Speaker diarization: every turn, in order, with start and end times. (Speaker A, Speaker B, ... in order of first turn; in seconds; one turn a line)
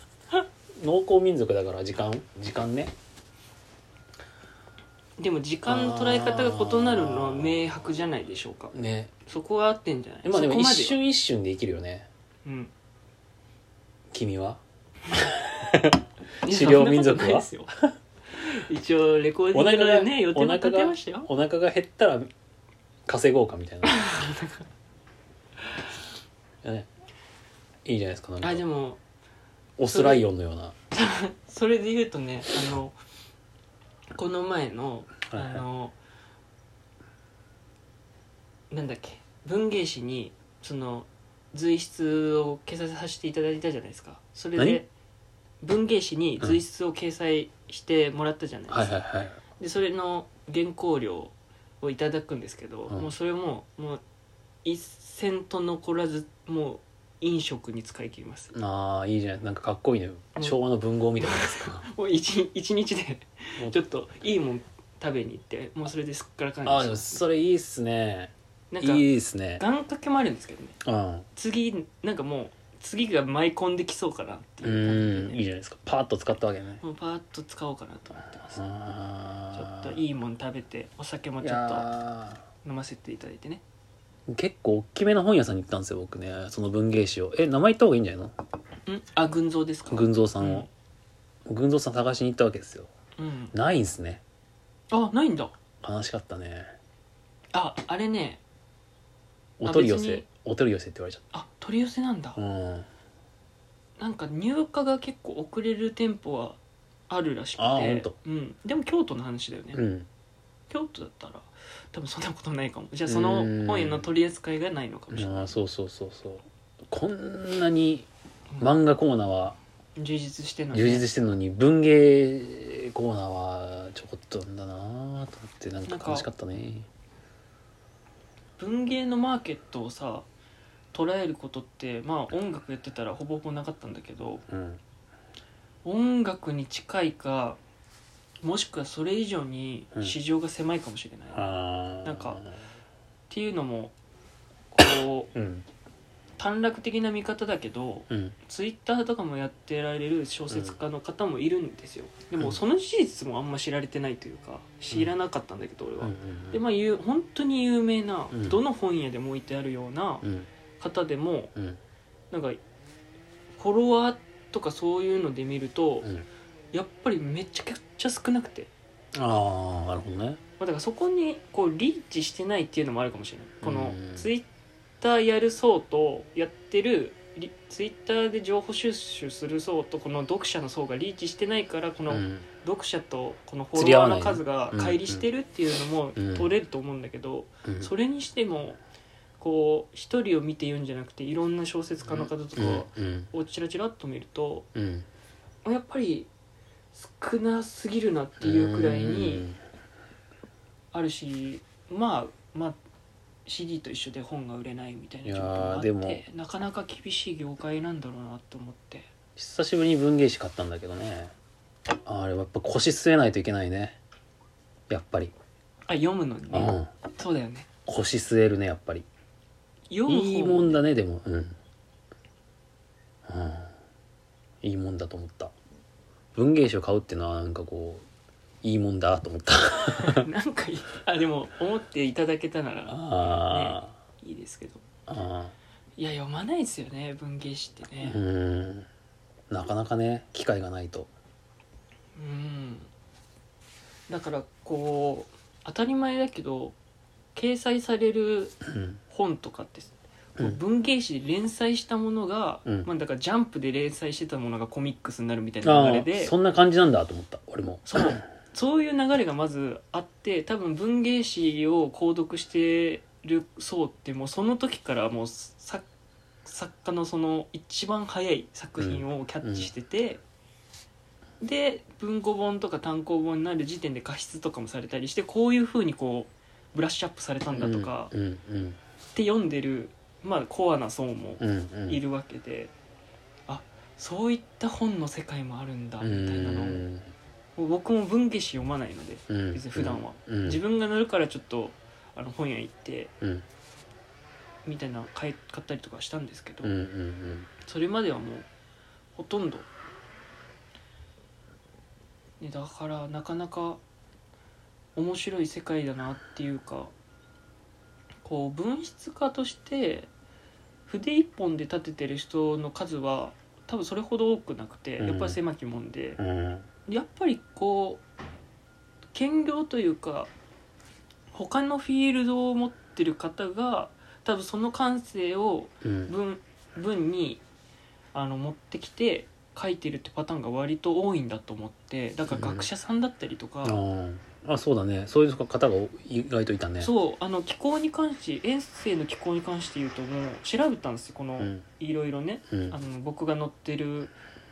Speaker A: 0.8-2.9
Speaker B: 5.2-8.7
Speaker A: 5.7-7.8
Speaker A: 8.7-9.1
Speaker B: 9.3-11.0
Speaker A: 10.2-12.1
Speaker B: 12.4-12.7
Speaker A: 14.1-17.9
Speaker B: 16.4-17.7
Speaker B: 18.3-21.3
Speaker A: 19.5-22.3
Speaker A: 23.1-24.0
Speaker B: 23.8-24.7
Speaker A: 26.6-26.9
Speaker A: 27.9-28.6
Speaker B: 28.4-29.0
Speaker A: 29.8-30.8
Speaker B: 29.9-30.2
Speaker B: 30.9-33.0
Speaker B: 34.1-36.0
Speaker A: 35.3-35.6
Speaker B: 38.7-44.9
Speaker B: 45.6-49.0
Speaker A: 48.7-49.4
Speaker B: 49.6-54.0
Speaker B: 54.6-58.5
Speaker A: 58.5-61.9
Speaker B: 61.2-67.2
Speaker A: 66.7-69.6
Speaker B: 68.7-69.1
Speaker B: 69.6-70.7
Speaker A: 70.8-71.3
Speaker B: 71.4-75.4
Speaker A: 74.6-76.8
Speaker B: 76.8-78.6
Speaker A: 78.5-80.0
Speaker B: 79.5-81.9
Speaker A: 81.4-82.4
Speaker B: 82.6-83.6
Speaker A: 84.3-88.3
Speaker B: 88.9-90.7
Speaker A: 89.9-90.7
Speaker A: 91.5-92.9
Speaker B: 93.2-93.5
Speaker A: 93.5-94.2
Speaker B: 94.9-95.5
Speaker A: 95.8-96.7
Speaker B: 97.5-98.4
Speaker A: 99.6-101.2
Speaker B: 99.6-100.3
Speaker B: 101.3-102.4
Speaker A: 102.4-102.9
Speaker B: 104.0-106.6
Speaker B: 107.1-109.8
Speaker A: 107.6-108.2
Speaker A: 109.7-110.1
Speaker B: 110.7-115.5
Speaker A: 113.1-114.1
Speaker A: 115.1-118.1
Speaker A: 118.6-119.6
Speaker B: 120.0-121.1
Speaker A: 120.7-126.9
Speaker B: 125.9-126.3
Speaker B: 128.6-130.2
Speaker B: 130.9-134.4
Speaker A: 134.5-134.8
Speaker B: 135.8-137.6
Speaker B: 138.4-141.5
Speaker A: 141.3-142.6
Speaker B: 142.0-142.4
Speaker B: 143.3-143.9
Speaker B: 144.7-145.3
Speaker A: 145.3-145.7
Speaker B: 146.4-160.2
Speaker A: 148.1-148.3
Speaker A: 150.5-150.8
Speaker A: 156.0-156.6
Speaker A: 158.3-158.6
Speaker A: 160.2-160.5
Speaker B: 160.8-161.5
Speaker B: 162.3-162.6
Speaker B: 163.6-166.1
Speaker B: 166.7-168.7
Speaker A: 169.1-170.4
Speaker B: 170.6-174.5
Speaker A: 173.6-174.3
Speaker B: 175.0-188.8
Speaker A: 182.1-182.5
Speaker A: 183.8-185.3
Speaker A: 186.2-186.5
Speaker A: 187.7-187.9
Speaker B: 189.4-194.7
Speaker A: 192.1-193.3
Speaker A: 194.8-195.1
Speaker B: 195.6-196.3
Speaker B: 196.9-199.5
Speaker A: 198.4-199.6
Speaker B: 200.9-202.8
Speaker B: 203.5-209.1
Speaker A: 205.2-206.2
Speaker A: 209.4-211.3
Speaker A: 212.1-214.0
Speaker A: 214.9-215.3
Speaker B: 215.9-217.7
Speaker A: 216.5-216.9
Speaker A: 217.9-219.1
Speaker B: 219.9-220.8
Speaker A: 220.1-221.6
Speaker A: 223.3-223.7
Speaker A: 224.6-225.5
Speaker A: 226.3-228.1
Speaker A: 228.6-230.3
Speaker B: 230.0-234.8
Speaker A: 232.9-233.9
Speaker A: 235.1-235.6
Speaker B: 236.0-238.2
Speaker A: 238.0-238.9
Speaker A: 239.5-241.1
Speaker B: 242.2-242.9
Speaker B: 244.1-246.8
Speaker B: 247.3-248.6
Speaker A: 248.7-249.0
Speaker B: 249.1-256.3
Speaker A: 255.6-258.2
Speaker B: 257.9-265.9
Speaker B: 266.4-270.2
Speaker A: 268.8-269.7
Speaker B: 271.4-278.1
Speaker A: 277.6-278.8
Speaker B: 279.1-282.7
Speaker A: 281.4-282.0
Speaker B: 283.5-286.9
Speaker A: 286.0-287.1
Speaker B: 287.6-293.1
Speaker A: 289.3-290.6
Speaker B: 294.6-296.7
Speaker A: 296.6-297.5
Speaker B: 297.6-298.5
Speaker B: 299.1-299.7
Speaker B: 302.4-303.8
Speaker B: 305.0-306.9
Speaker B: 308.2-310.1
Speaker B: 310.9-316.2
Speaker A: 315.0-315.4
Speaker A: 316.2-316.7
Speaker B: 316.9-318.0
Speaker B: 319.1-320.3
Speaker B: 321.3-327.4
Speaker A: 325.8-326.1
Speaker B: 328.1-333.8
Speaker A: 332.3-332.7
Speaker A: 333.6-336.9
Speaker B: 336.8-344.1
Speaker A: 341.4-341.6
Speaker A: 342.5-342.8